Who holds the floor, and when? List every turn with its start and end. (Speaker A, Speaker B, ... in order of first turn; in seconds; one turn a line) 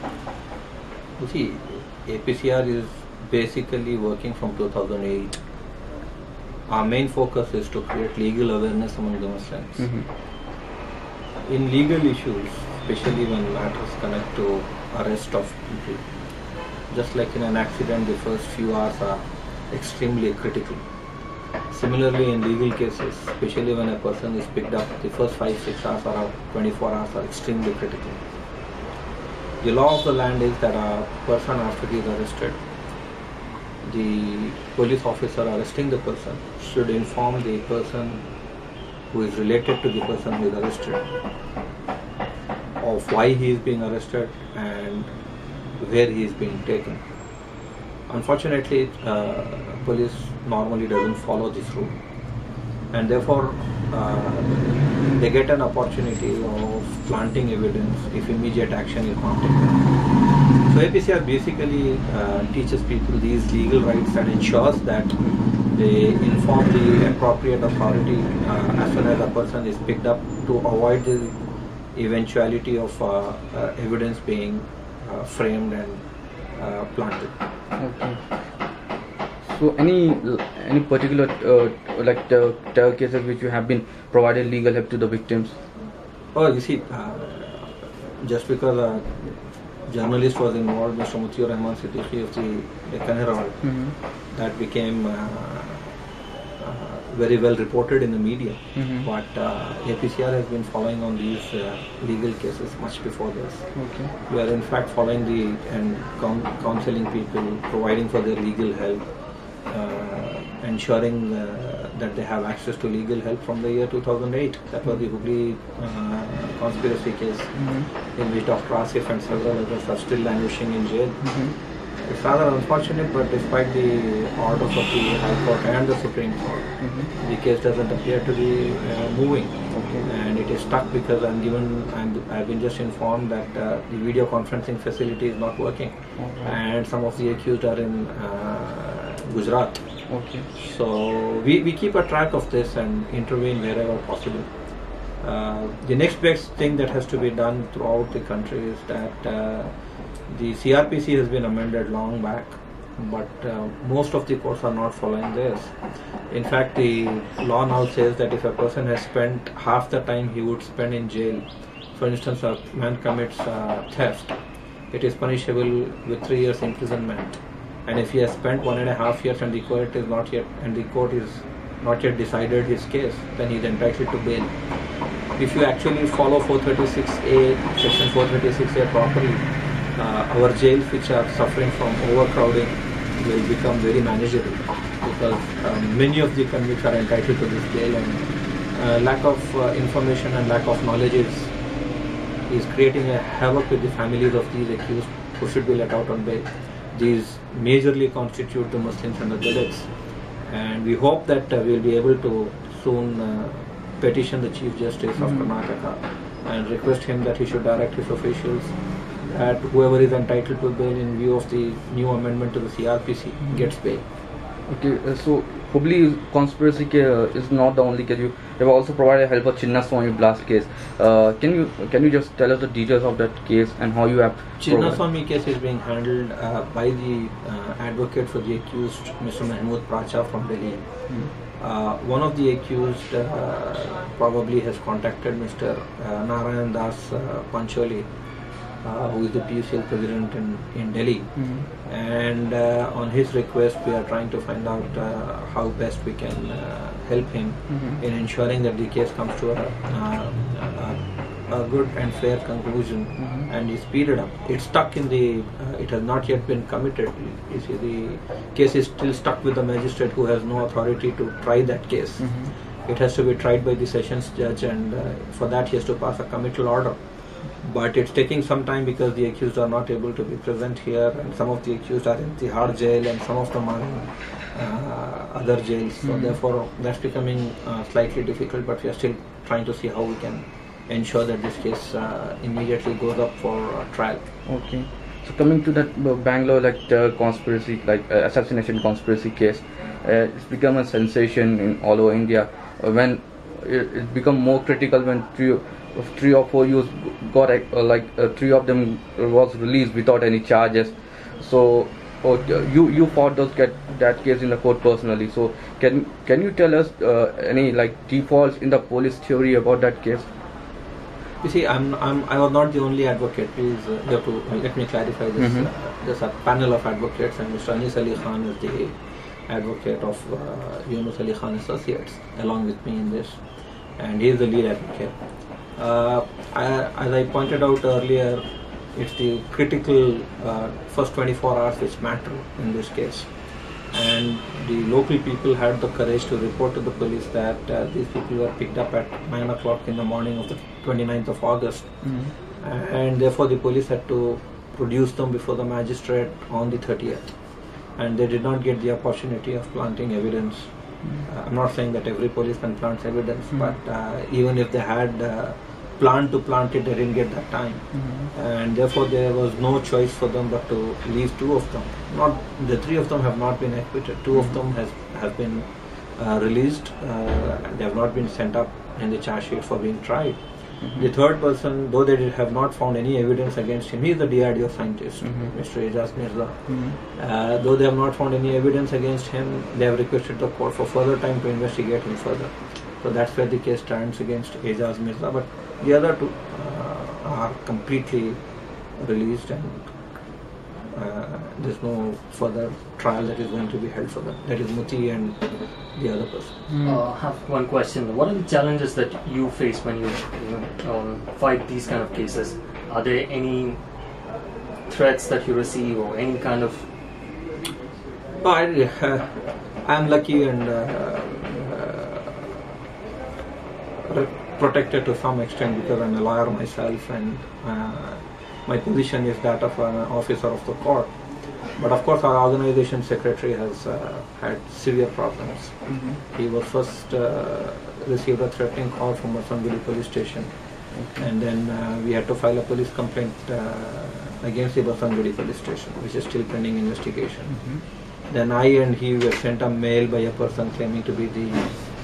Speaker A: 1.2-5.4
Speaker A: 6.7-9.9
Speaker B: 9.8-10.1
Speaker A: 11.4-16.0
Speaker A: 16.9-20.8
Speaker A: 21.7-28.2
Speaker A: 29.6-32.6
Speaker A: 33.8-38.2
Speaker A: 39.1-41.0
Speaker A: 42.8-45.1
Speaker A: 45.8-47.0
Speaker A: 48.1-52.0
Speaker A: 52.9-59.9
Speaker A: 60.6-71.4
Speaker A: 71.9-76.0
Speaker A: 76.6-77.3
Speaker B: 77.8-78.2
Speaker B: 79.5-85.5
Speaker A: 86.3-89.3
Speaker A: 89.9-93.6
Speaker B: 93.6-93.9
Speaker A: 94.3-95.9
Speaker A: 96.6-103.7
Speaker B: 98.8-99.1
Speaker B: 103.8-104.1
Speaker A: 104.3-109.0
Speaker A: 109.7-117.5
Speaker B: 117.6-117.9
Speaker A: 118.2-121.3
Speaker B: 121.2-121.5
Speaker A: 122.0-139.8
Speaker B: 126.8-127.1
Speaker B: 129.7-130.0
Speaker B: 136.2-136.6
Speaker B: 140.1-140.5
Speaker A: 140.5-144.5
Speaker A: 145.2-149.7
Speaker A: 150.3-155.7
Speaker A: 156.3-164.3
Speaker A: 164.9-174.5
Speaker A: 175.4-191.5
Speaker A: 192.5-199.9
Speaker A: 200.4-208.8
Speaker A: 209.3-214.0
Speaker B: 214.7-225.0
Speaker A: 224.6-230.9
Speaker A: 231.6-238.1
Speaker A: 238.8-262.3
Speaker B: 241.4-241.7
Speaker B: 247.7-248.0
Speaker B: 253.2-253.5
Speaker B: 262.2-262.5
Speaker A: 262.9-267.0
Speaker A: 267.6-284.2
Speaker B: 276.1-276.3
Speaker B: 284.5-310.3
Speaker A: 311.4-318.9
Speaker B: 315.4-315.7
Speaker A: 319.5-323.4
Speaker A: 324.0-325.2
Speaker A: 325.8-328.4
Speaker A: 328.9-333.3
Speaker A: 333.9-347.3
Speaker B: 342.0-342.3
Speaker A: 348.0-350.7
Speaker A: 351.2-370.4
Speaker B: 357.9-358.3
Speaker B: 370.8-371.1
Speaker A: 370.9-388.4
Speaker B: 376.7-376.9
Speaker A: 389.0-389.9
Speaker A: 390.9-395.4
Speaker A: 395.9-396.6
Speaker B: 396.7-396.9
Speaker C: 396.8-403.8
Speaker C: 404.9-406.9
Speaker A: 408.4-412.6
Speaker A: 414.0-421.1
Speaker A: 421.8-430.5
Speaker B: 425.9-426.2
Speaker B: 430.9-431.3
Speaker A: 431.2-437.5
Speaker B: 437.5-437.8
Speaker A: 438.3-441.7